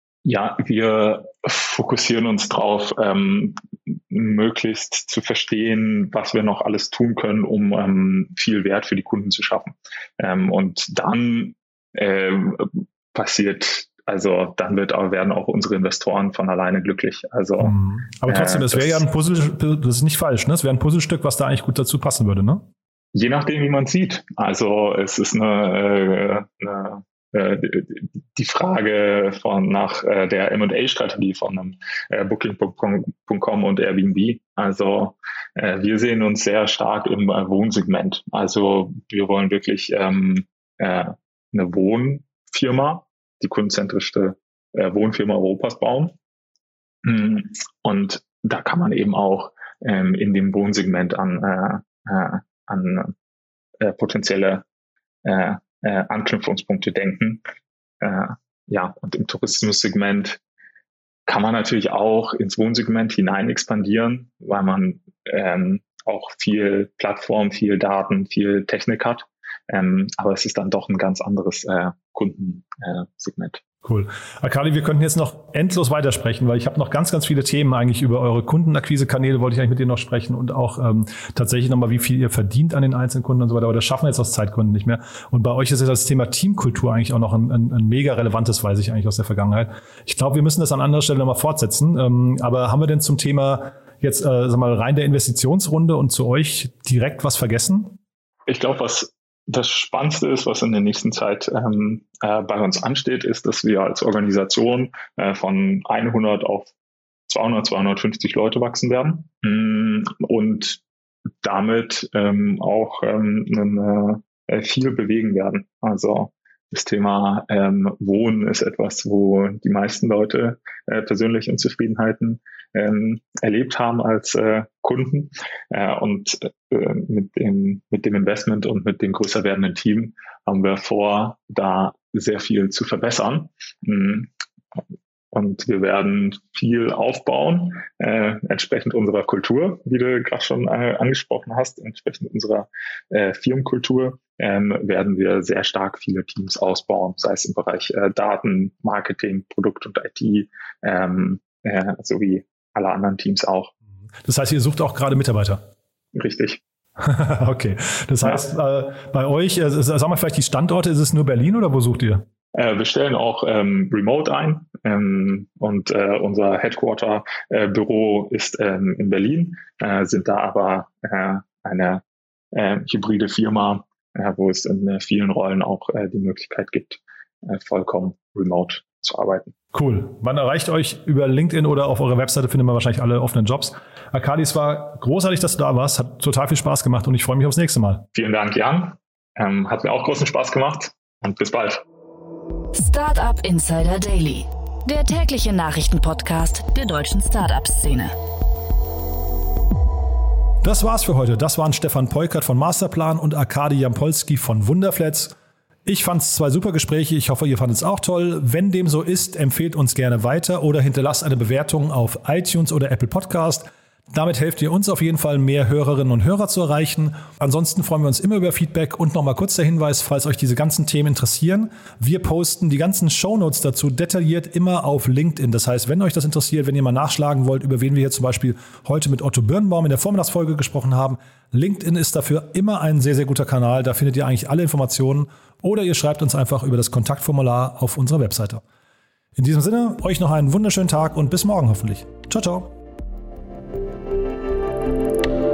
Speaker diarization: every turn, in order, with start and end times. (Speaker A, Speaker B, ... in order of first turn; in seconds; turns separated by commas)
Speaker A: 0.2-19.0, Speaker B: 17.6-22.7, Speaker A: 23.1-46.1, Speaker A: 47.0-53.1, Speaker A: 53.8-54.6, Speaker A: 55.2-57.4, Speaker A: 58.0-60.4, Speaker A: 61.3-73.6, Speaker B: 73.8-98.0, Speaker A: 98.5-106.7, Speaker A: 107.3-110.8, Speaker A: 111.4-134.3, Speaker A: 135.3-153.7, Speaker B: 154.2-155.6, Speaker A: 156.1-156.6, Speaker B: 157.0-162.2, Speaker A: 162.5-179.5, Speaker B: 179.7-188.0, Speaker A: 188.1-191.8, Speaker C: 192.7-198.1, Speaker B: 200.6-205.3, Speaker B: 205.8-238.6, Speaker B: 239.3-242.7